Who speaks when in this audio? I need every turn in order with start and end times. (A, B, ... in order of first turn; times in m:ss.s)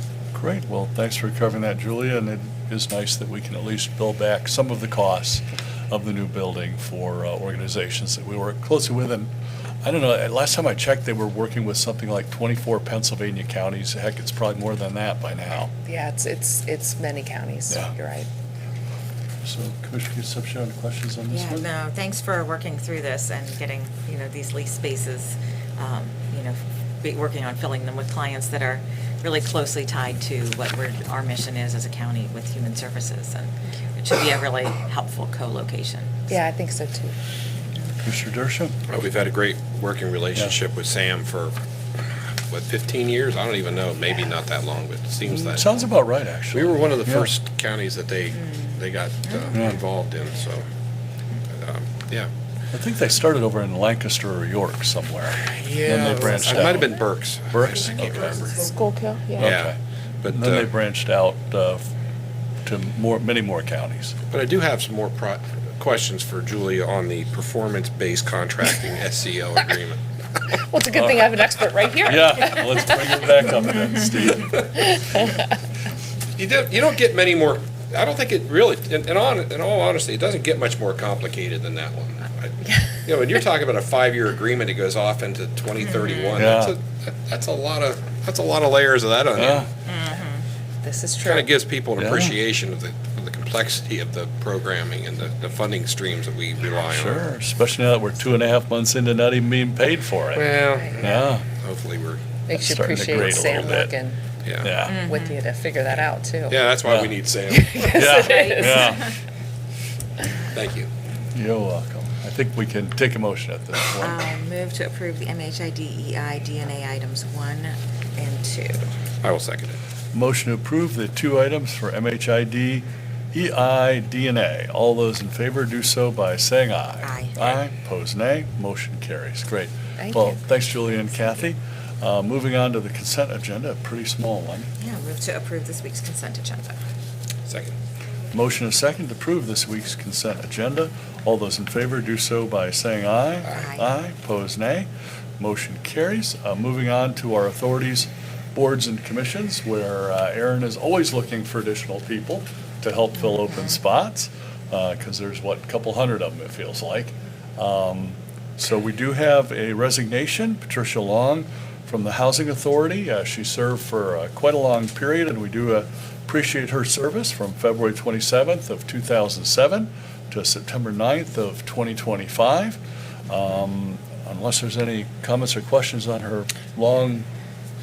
0:00.3-0:09.3 A
0:09.8-0:15.7 A
0:15.8-0:18.3 B
0:19.4-0:21.7 A
0:21.3-0:36.4 C
0:36.3-0:37.1 B
0:38.0-0:38.8 A
0:38.9-0:41.6 D
0:42.5-0:45.7 D
0:45.2-0:47.3 A
0:46.5-0:50.7 D
0:49.5-0:49.8 A
0:51.5-0:52.3 D
0:52.7-0:57.0 A
0:55.5-0:58.7 D
0:57.5-0:58.4 A
0:58.5-0:59.6 B
0:59.4-0:59.8 A
0:59.4-1:00.7 D
1:00.3-1:01.9 A
1:02.6-1:04.2 A
1:04.3-1:10.0 D
1:10.5-1:13.2 B
1:11.0-1:11.3 A
1:12.0-1:14.7 A
1:14.6-1:15.4 B
1:16.4-1:29.7 D
1:22.6-1:23.1 B
1:26.0-1:26.4 C
1:26.4-1:26.8 A
1:29.4-1:29.7 A
1:29.9-1:30.4 C
1:30.8-1:31.5 B
1:31.2-1:37.2 D
1:32.0-1:32.4 A
1:36.9-1:40.5 A
1:40.3-1:42.2 D
1:40.8-1:41.3 B
1:41.0-1:41.4 A
1:42.5-1:44.2 B
1:42.5-1:43.9 A
1:43.1-1:43.8 D
1:44.4-1:44.8 D
1:44.6-1:45.0 A
1:44.9-1:45.3 C
1:44.9-1:46.6 B
1:46.5-1:48.2 D
1:46.8-1:47.2 A
1:47.5-1:49.1 B
1:47.9-1:49.1 A
1:48.0-1:49.0 C
1:50.5-1:50.9 D
1:51.3-1:54.2 A
1:54.0-1:58.9 C
1:59.2-1:59.8 D
2:00.1-2:14.7 A
2:07.0-2:07.3 C
2:10.0-2:10.4 B
2:14.8-2:16.8 C
2:17.5-2:17.8 D
2:18.3-2:57.3 A
2:23.5-2:23.9 C
2:33.2-2:33.8 C